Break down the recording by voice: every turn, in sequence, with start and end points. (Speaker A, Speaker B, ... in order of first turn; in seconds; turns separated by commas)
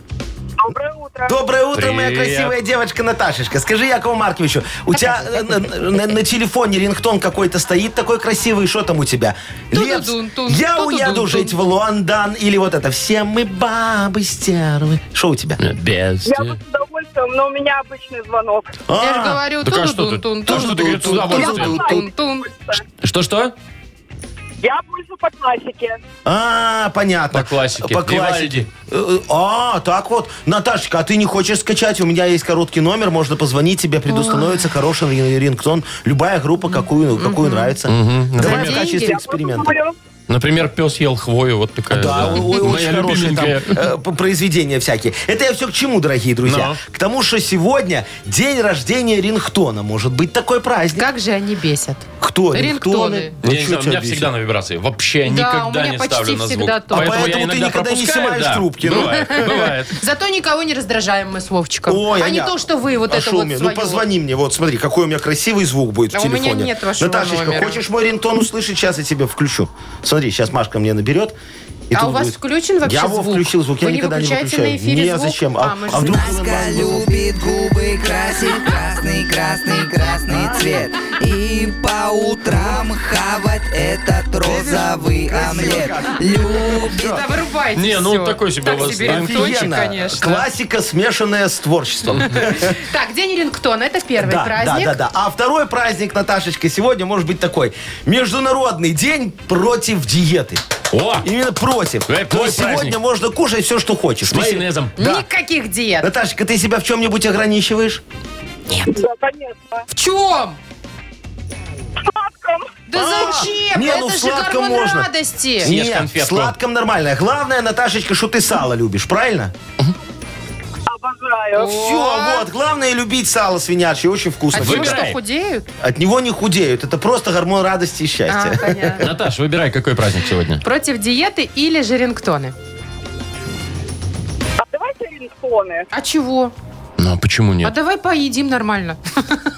Speaker A: 0.6-1.4, Speaker B: 1.3-15.6, Speaker C: 1.7-2.5, Speaker D: 4.9-5.7, Speaker D: 9.7-11.6, Speaker C: 15.6-16.6, Speaker A: 16.2-18.8, Speaker B: 18.9-19.4, Speaker D: 18.9-22.5, Speaker C: 19.6-21.8, Speaker B: 20.4-22.1, Speaker A: 21.3-22.8, Speaker C: 23.0-23.5, Speaker A: 24.6-26.0, Speaker B: 26.2-39.8, Speaker C: 27.3-28.7, Speaker D: 37.2-37.8, Speaker C: 37.9-39.0, Speaker D: 38.4-39.1, Speaker A: 38.9-39.9, Speaker C: 40.3-43.8, Speaker B: 41.9-51.1, Speaker C: 46.4-46.8, Speaker D: 50.9-53.3, Speaker B: 52.2-54.3, Speaker C: 53.4-60.0, Speaker D: 55.2-57.4, Speaker B: 56.9-59.7, Speaker D: 59.1-64.0, Speaker B: 61.9-71.3, Speaker D: 66.1-67.8, Speaker B: 71.9-77.1, Speaker D: 71.9-76.9, Speaker E: 76.0-87.2, Speaker B: 80.3-80.8, Speaker B: 84.4-87.0, Speaker D: 86.8-90.4, Speaker C: 87.7-89.7, Speaker B: 88.9-92.8, Speaker D: 92.2-95.0, Speaker B: 94.2-100.6, Speaker C: 100.9-101.3, Speaker B: 101.2-105.2, Speaker C: 102.1-103.0, Speaker C: 104.2-105.0, Speaker D: 105.0-106.1, Speaker B: 106.0-108.0, Speaker D: 108.7-109.0, Speaker A: 108.9-109.8, Speaker D: 109.9-110.6, Speaker A: 112.0-112.8, Speaker D: 112.9-115.7, Speaker B: 112.9-115.1, Speaker B: 115.6-119.5, Speaker C: 115.6-116.5, Speaker A: 120.9-121.8, Speaker D: 121.5-122.5, Speaker B: 121.7-125.1, Speaker D: 124.5-125.7, Speaker C: 124.5-125.2, Speaker B: 125.8-129.1, Speaker D: 128.3-129.0, Speaker C: 129.0-130.6, Speaker D: 130.6-132.5, Speaker A: 134.6-135.9, Speaker D: 135.9-136.5, Speaker C: 137.0-137.7, Speaker D: 137.6-139.4